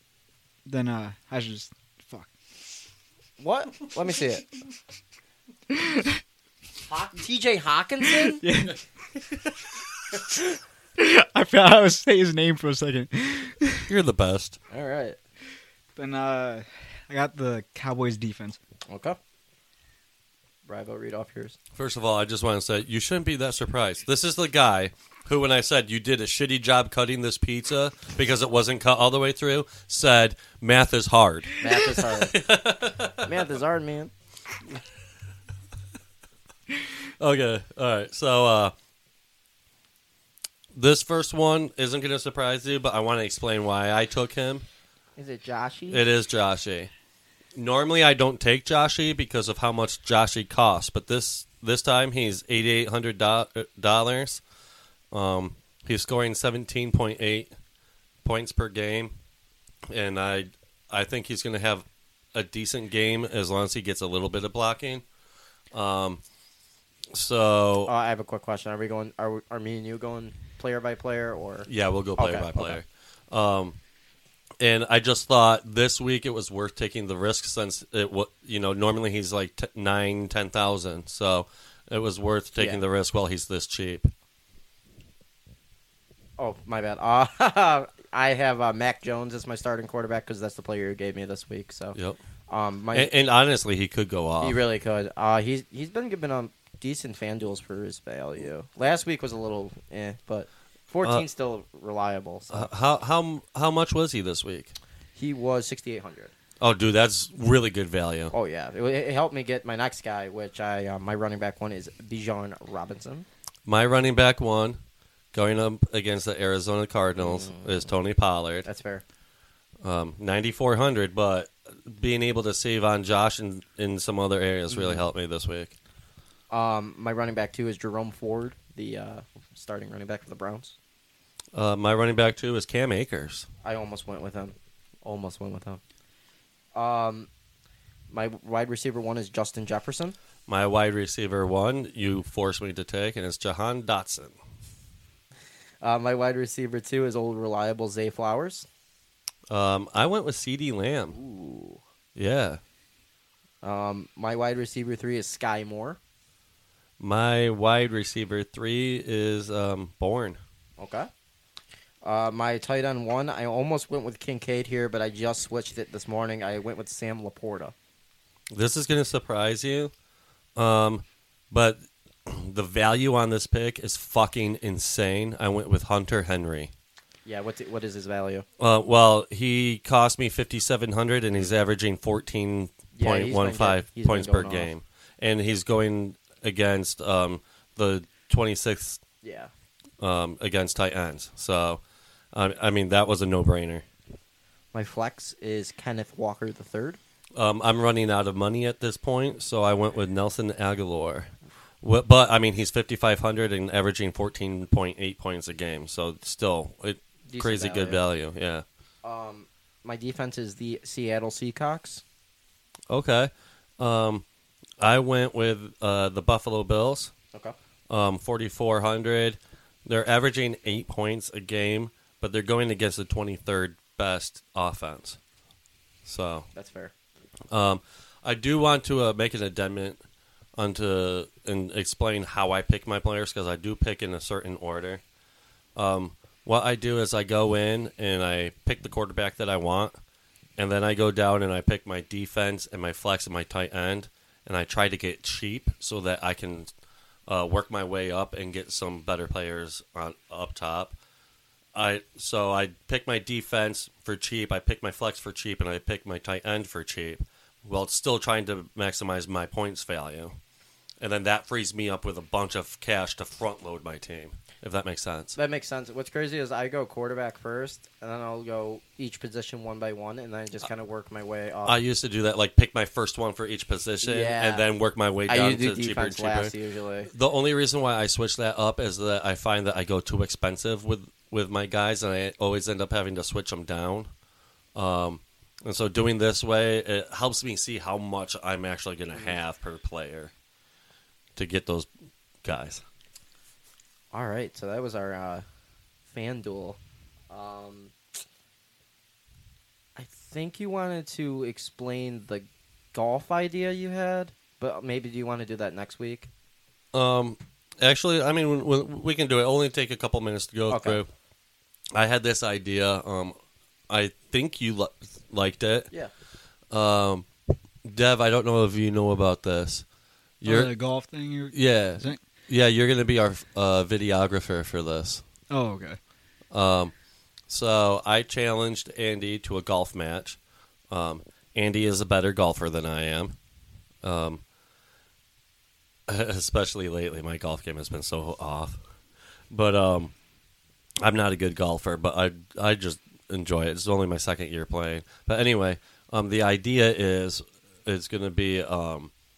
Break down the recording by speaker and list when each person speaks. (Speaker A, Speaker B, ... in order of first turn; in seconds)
Speaker A: 0.6-2.3, 5.7-6.2, 8.4-8.8, 11.0-13.8, 15.9-18.6, 320.4-322.2, 325.5-326.0
Speaker B: 3.4-4.4, 6.8-8.4, 14.7-15.2, 18.9-19.2, 20.7-21.6, 31.6-32.3, 33.2-34.1, 45.2-46.0, 67.8-72.8, 86.4-92.0, 92.5-93.1, 94.4-102.7, 105.2-106.3, 108.3-113.3, 117.2-117.9, 118.6-119.0, 124.7-125.0, 126.5-130.8, 133.6-135.8, 136.7-137.3, 138.1-140.2, 145.8-148.7, 151.1-151.8, 153.6-156.0, 160.8-161.1, 162.0-167.7, 177.2-178.4, 182.9-184.7, 189.2-189.5, 194.7-197.0, 207.3-208.0, 209.0-212.0, 226.5-226.9, 265.3-271.8, 274.0-274.6, 275.3-277.1, 294.1-295.4, 296.1-296.8, 297.3-297.9, 299.9-306.3, 310.7-311.0
Speaker C: 13.8-14.6, 21.7-33.4, 37.2-38.7, 40.7-44.6, 45.9-46.9, 47.5-54.4, 55.1-57.5, 58.2-59.1, 59.9-65.0, 65.7-66.2, 67.1-67.9, 71.7-73.8, 74.6-84.1, 92.9-94.6, 102.5-104.7, 106.6-108.3, 113.7-114.8, 115.3-118.7, 119.8-125.7, 131.5-133.5, 140.5-144.3, 149.5-151.2, 152.2-152.6, 157.0-160.4, 168.5-169.9, 170.6-176.7, 178.6-189.0, 190.0-191.8, 192.3-193.8, 197.3-201.3, 201.8-208.6, 212.9-214.2, 214.8-217.1, 217.9-225.2, 226.1-226.5, 227.5-230.0, 230.6-235.0, 235.8-239.9, 240.6-246.7, 247.3-250.9, 251.7-260.3, 261.0-265.4, 271.6-276.5, 277.1-284.1, 284.7-290.3, 291.4-291.9, 292.4-292.8, 306.9-311.1, 311.9-313.4, 313.9-315.9, 316.7-317.2, 317.8-319.8, 320.4-320.7, 321.5-325.2, 326.5-326.9, 327.5-330.4, 330.9-333.4, 334.0-334.4, 336.1-338.8, 339.5-340.1, 341.0-349.1